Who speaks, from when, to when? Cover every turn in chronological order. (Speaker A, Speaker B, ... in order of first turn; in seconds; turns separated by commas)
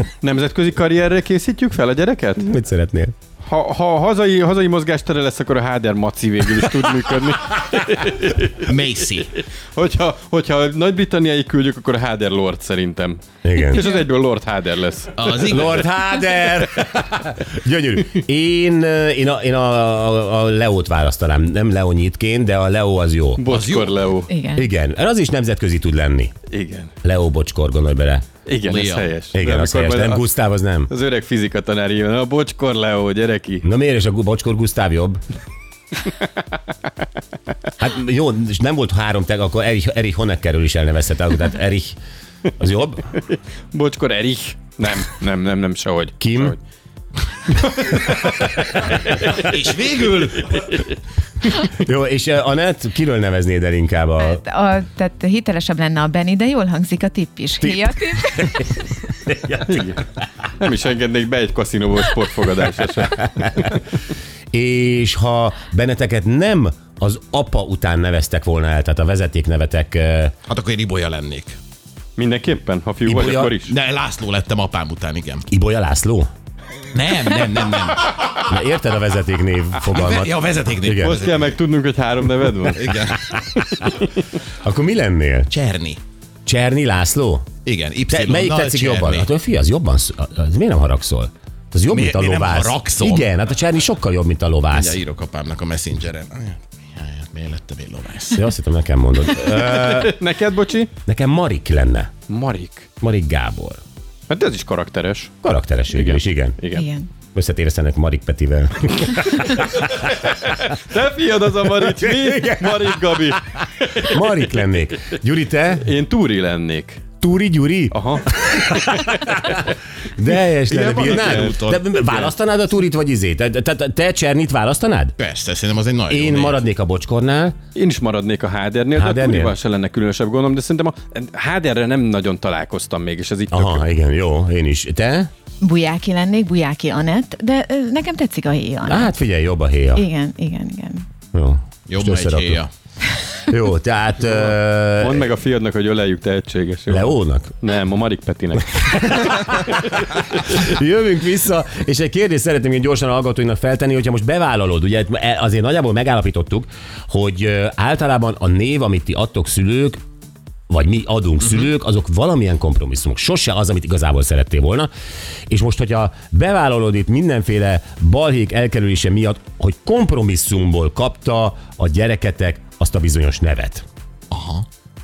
Speaker A: 0.2-2.5, Speaker B: 2.4-3.1, Speaker A: 3.4-8.7, Speaker C: 8.6-9.3, Speaker A: 9.3-15.6, Speaker B: 13.4-13.9, Speaker C: 15.2-15.9, Speaker B: 15.4-23.4, Speaker A: 23.4-24.3, Speaker C: 23.5-24.1, Speaker D: 24.3-24.7, Speaker B: 24.5-26.3, Speaker A: 26.5-26.9, Speaker B: 27.0-28.3, Speaker A: 28.5-30.3, Speaker C: 28.6-29.2, Speaker B: 29.3-30.9, Speaker A: 30.9-33.7, Speaker B: 33.6-35.2, Speaker B: 37.8-42.0, Speaker B: 42.6-43.0, Speaker A: 43.3-46.6, Speaker B: 46.2-46.6, Speaker A: 47.5-49.5, Speaker C: 49.2-50.8, Speaker B: 51.6-54.4, Speaker D: 54.2-58.8, Speaker B: 57.7-59.9, Speaker A: 59.7-60.0, Speaker A: 60.6-63.8, Speaker B: 64.5-70.3, Speaker C: 70.5-71.6, Speaker A: 72.2-73.7, Speaker C: 73.0-75.5, Speaker B: 75.5-76.3, Speaker C: 76.9-78.4, Speaker B: 78.4-81.2, Speaker C: 79.8-81.5, Speaker A: 81.0-83.1, Speaker C: 82.7-83.3, Speaker B: 84.6-85.5, Speaker C: 85.5-86.0, Speaker B: 86.5-87.5, Speaker C: 87.7-89.3, Speaker B: 88.1-95.0, Speaker C: 91.9-93.3, Speaker C: 94.7-98.5, Speaker B: 98.3-100.2, Speaker A: 99.5-100.9, Speaker B: 101.1-102.1, Speaker A: 102.3-102.9, Speaker B: 103.0-103.8, Speaker A: 104.3-105.3, Speaker B: 105.4-106.6, Speaker A: 105.9-106.9, Speaker D: 106.7-107.1, Speaker B: 107.3-109.8, Speaker A: 109.4-114.6, Speaker B: 111.8-115.9, Speaker A: 115.8-117.0, Speaker B: 117.2-119.5, Speaker A: 117.9-119.6, Speaker B: 120.2-125.2, Speaker C: 120.7-121.8, Speaker A: 120.9-122.3, Speaker C: 125.2-126.6, Speaker B: 126.1-127.6, Speaker A: 127.8-133.8, Speaker B: 128.9-129.6, Speaker B: 133.5-135.3, Speaker D: 135.6-139.1, Speaker B: 138.9-140.1, Speaker D: 139.9-141.1, Speaker B: 141.3-142.6, Speaker C: 141.9-142.7, Speaker B: 143.4-145.3, Speaker A: 144.2-149.7, Speaker B: 146.9-147.6, Speaker B: 148.8-160.0, Speaker B: 160.7-164.9, Speaker B: 165.5-173.8, Speaker C: 174.3-174.7